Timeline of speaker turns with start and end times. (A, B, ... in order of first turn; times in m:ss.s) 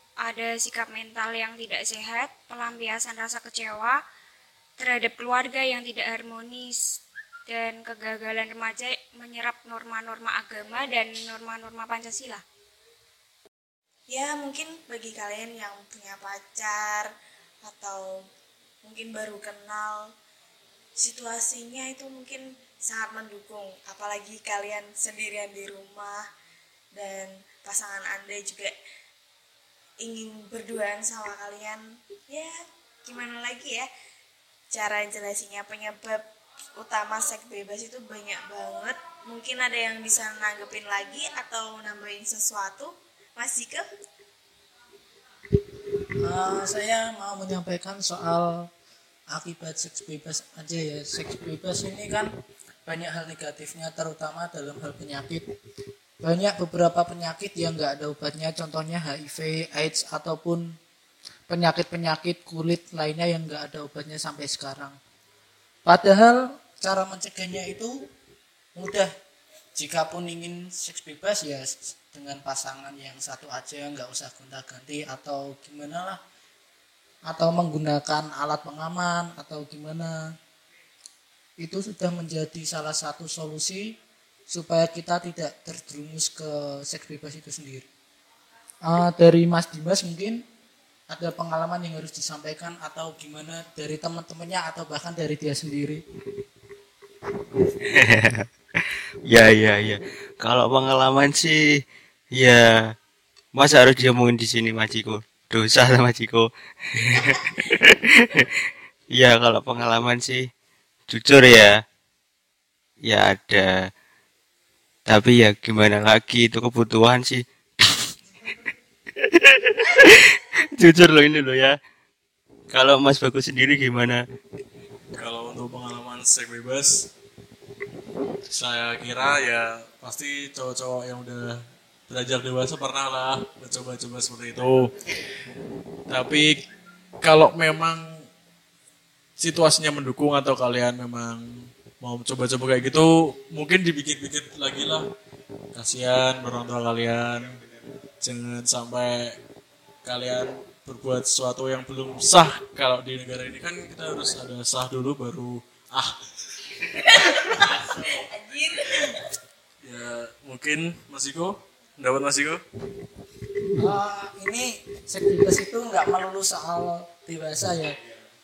0:00.2-0:04.0 A
0:04.8-0:06.8 A
0:07.5-0:12.4 A
0:14.1-0:17.1 B
0:17.6-0:18.1 B
0:18.8-0:20.0 B
0:21.0-0:26.2 B
0:27.0-0:28.7 B
0:30.0-0:32.5 B
0:33.0-0:33.9 B
0:34.7-0:36.2 B
0:36.8-0:43.8 B
0:46.2-0:48.7 C
0:49.3-0:52.3 C
0:52.9-0:55.5 C
0:56.2-1:00.7 C
1:01.5-1:05.0 C
1:05.9-1:08.0 C
1:08.8-1:09.1 C
1:09.8-1:16.2 C
1:17.3-1:20.3 C
1:21.6-1:23.9 C
1:24.5-1:27.9 C
1:28.8-1:30.4 C
1:31.1-1:36.0 C
1:38.0-1:38.3 D
1:39.3-1:41.6 D
1:42.4-1:42.7 D
1:43.6-1:46.5 D
1:49.2-1:50.4 D
1:51.1-1:51.7 D
1:53.1-1:53.7 D
1:55.1-1:57.9 D
1:59.7-2:00.1 D
2:00.8-2:01.8 D
2:02.7-2:04.2 D
2:05.1-2:07.1 E
2:08.5-2:11.6 E
2:12.1-2:14.9 E
2:16.1-2:16.6 E
2:17.2-2:18.0 E
2:19.4-2:21.4 E
2:22.0-2:25.0 E
2:25.8-2:27.6 E
2:28.2-2:29.4 E
2:30.0-2:36.2 E
2:37.1-2:39.1 B
2:37.5-2:37.9 E
2:39.8-2:42.6 E
2:43.8-2:48.0 C